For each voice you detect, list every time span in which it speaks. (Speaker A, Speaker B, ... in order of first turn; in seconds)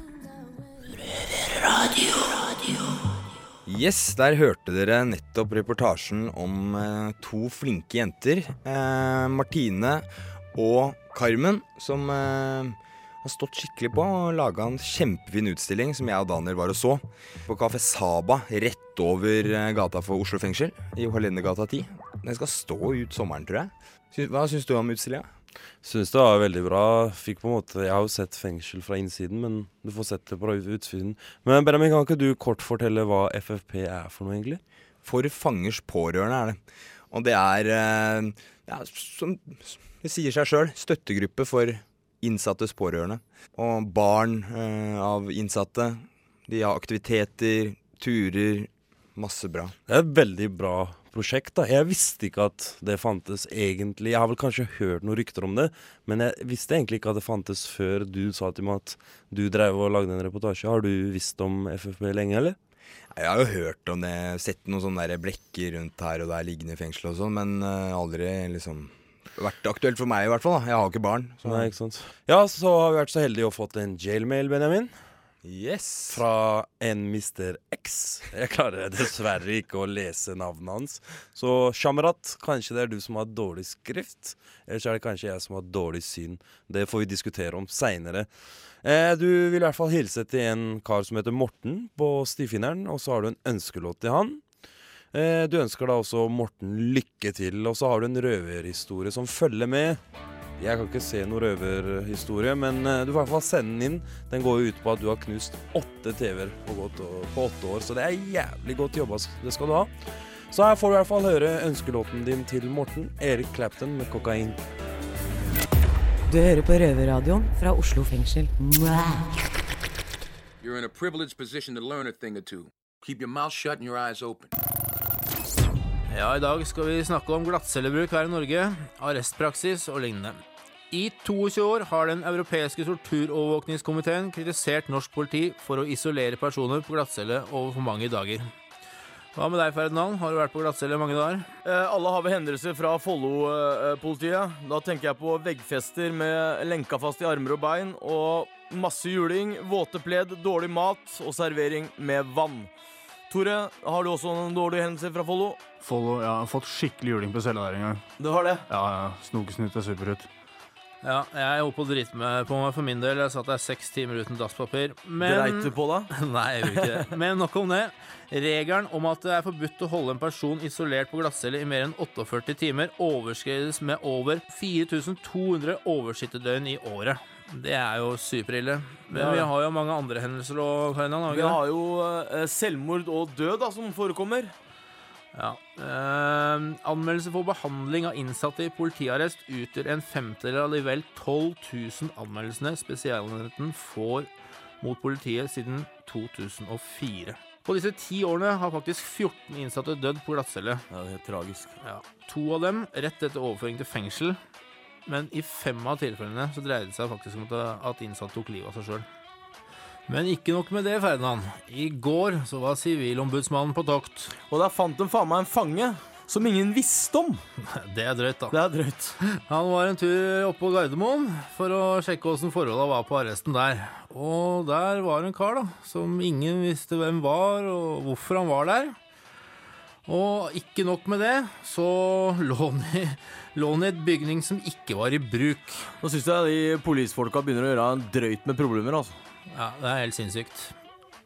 Speaker A: 3.6-25.3, 35.0-36.6, 37.1-49.7, 63.1-71.7, 75.4-76.2
Speaker B: 25.8-34.6, 49.9-62.6, 71.4-74.9, 76.1-88.3, 88.8-94.4, 95.1-100.0, 100.6-109.9, 110.5-114.6
Speaker C: 116.3-119.3
Speaker D: 120.6-124.5
Speaker E: 126.1-138.5, 139.3-141.5, 161.0-181.6, 185.3-194.3, 194.8-200.8, 201.8-204.4, 205.1-209.1, 210.1-214.3, 217.7-218.6, 219.2-228.9, 230.1-235.9, 239.5-240.7
Speaker F: 141.6-152.7, 153.3-155.6, 158.2-158.7, 165.2-166.1, 166.6-167.0, 179.1-179.5, 181.3-184.5, 200.9-201.7, 214.5-217.4, 218.5-219.2, 236.0-239.2
Speaker G: 155.8-158.0, 158.7-160.3